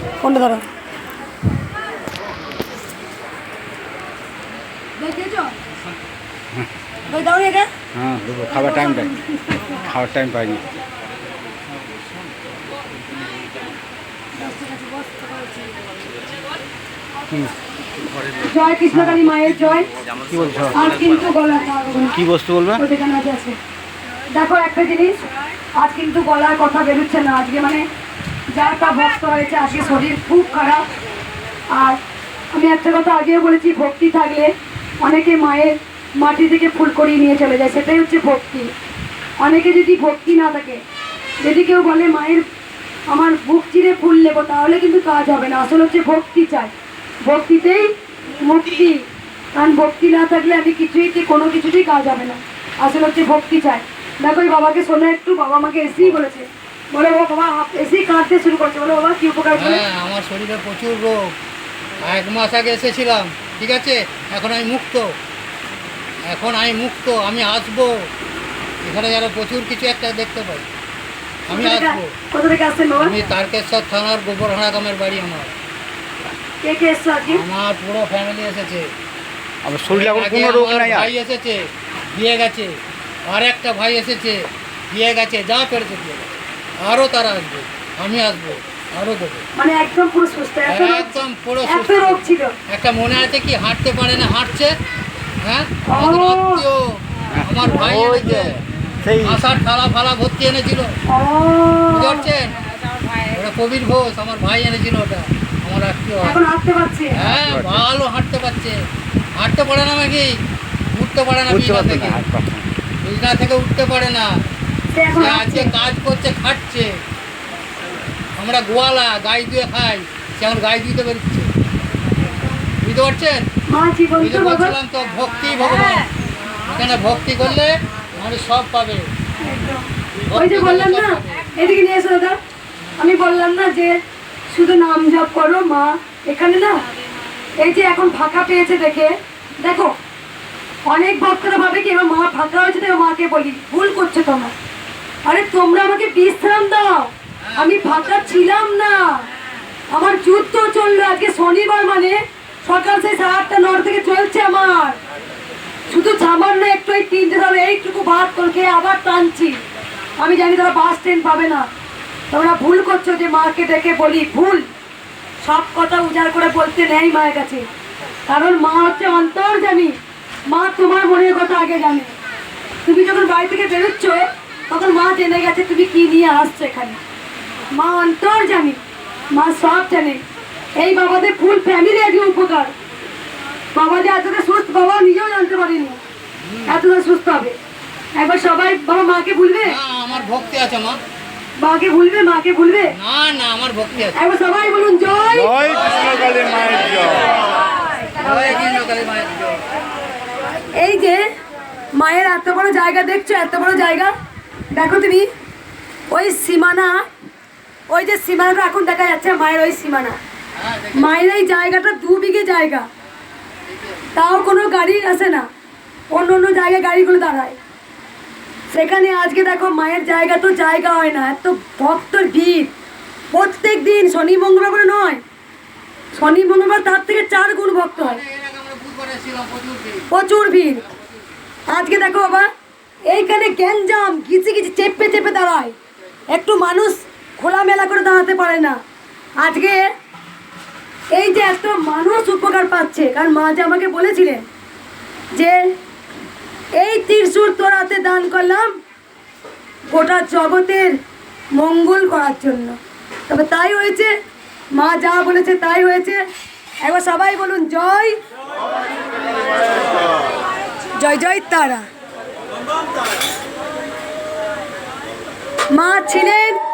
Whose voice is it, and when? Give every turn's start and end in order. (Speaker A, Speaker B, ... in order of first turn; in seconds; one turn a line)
Speaker A: 0.2-0.7
Speaker A: 5.0-5.6
Speaker A: 7.1-7.7
Speaker B: 8.0-9.1
Speaker A: 8.5-9.9
Speaker B: 9.8-10.7
Speaker A: 14.4-15.7
Speaker A: 18.4-19.9
Speaker B: 18.9-19.2
Speaker B: 20.3-20.8
Speaker A: 20.7-23.6
Speaker B: 22.1-22.8
Speaker A: 24.3-25.2
Speaker A: 25.8-27.9
Speaker A: 28.5-30.9
Speaker A: 31.7-32.0
Speaker A: 32.5-38.7
Speaker A: 39.4-40.8
Speaker A: 41.4-42.5
Speaker A: 43.1-46.7
Speaker A: 47.2-59.8
Speaker C: 59.5-61.4
Speaker C: 62.0-65.2
Speaker C: 66.2-68.1
Speaker C: 68.8-70.7
Speaker A: 71.5-73.2
Speaker C: 71.5-72.1
Speaker C: 73.0-75.5
Speaker A: 76.6-77.4
Speaker C: 77.3-78.9
Speaker B: 79.6-81.1
Speaker C: 79.9-82.8
Speaker C: 83.3-86.3
Speaker C: 86.8-89.4
Speaker A: 89.5-92.5
Speaker C: 90.7-94.8
Speaker C: 95.4-98.6
Speaker A: 95.9-96.7
Speaker B: 97.3-99.4
Speaker C: 99.2-100.9
Speaker A: 101.1-102.3
Speaker C: 101.9-102.5
Speaker C: 103.3-106.4
Speaker A: 106.2-107.2
Speaker C: 107.1-108.8
Speaker B: 107.2-107.8
Speaker C: 109.4-110.3
Speaker C: 110.9-112.2
Speaker B: 111.5-112.7
Speaker C: 113.0-114.3
Speaker A: 114.9-115.7
Speaker C: 115.1-117.0
Speaker C: 118.4-121.5
Speaker C: 122.8-123.5
Speaker A: 123.7-124.8
Speaker C: 124.2-126.1
Speaker C: 126.7-129.1
Speaker A: 129.4-132.4
Speaker C: 130.3-131.5
Speaker A: 133.0-134.0
Speaker A: 134.5-136.8
Speaker A: 137.6-139.9
Speaker A: 140.9-144.5
Speaker A: 145.2-149.3
Speaker C: 147.4-148.4
Speaker A: 149.9-155.0
Speaker A: 155.9-159.6
Speaker A: 160.2-161.7
Speaker A: 162.3-164.7
Speaker A: 165.4-167.7
Speaker A: 168.3-172.1
Speaker A: 172.8-177.0
Speaker A: 177.7-178.8
Speaker A: 179.3-180.2
Speaker A: 180.8-182.7
Speaker A: 183.7-186.0
Speaker C: 186.4-186.8
Speaker A: 186.7-187.6
Speaker A: 188.2-189.8
Speaker C: 189.6-191.0
Speaker A: 191.6-192.9
Speaker C: 192.9-194.2
Speaker A: 194.2-195.6
Speaker C: 195.7-197.5
Speaker C: 198.2-199.6
Speaker A: 200.8-201.2
Speaker A: 201.9-204.1
Speaker A: 204.7-205.3
Speaker A: 206.1-207.1
Speaker A: 207.9-210.2
Speaker C: 210.6-211.1
Speaker A: 210.9-212.9
Speaker C: 213.7-214.1
Speaker A: 214.1-215.5
Speaker A: 216.1-217.6
Speaker A: 218.7-222.7
Speaker A: 223.3-225.2
Speaker A: 226.2-228.2
Speaker C: 228.0-230.1
Speaker A: 230.1-230.8
Speaker A: 231.7-232.5
Speaker A: 233.1-235.8
Speaker A: 236.3-238.8
Speaker A: 239.4-239.9
Speaker A: 241.1-244.4
Speaker A: 245.3-245.7
Speaker A: 246.8-248.8
Speaker A: 249.9-251.0
Speaker A: 251.5-252.8
Speaker A: 253.3-254.1
Speaker A: 254.7-256.2
Speaker A: 256.8-258.2
Speaker A: 261.0-261.9
Speaker A: 265.7-266.6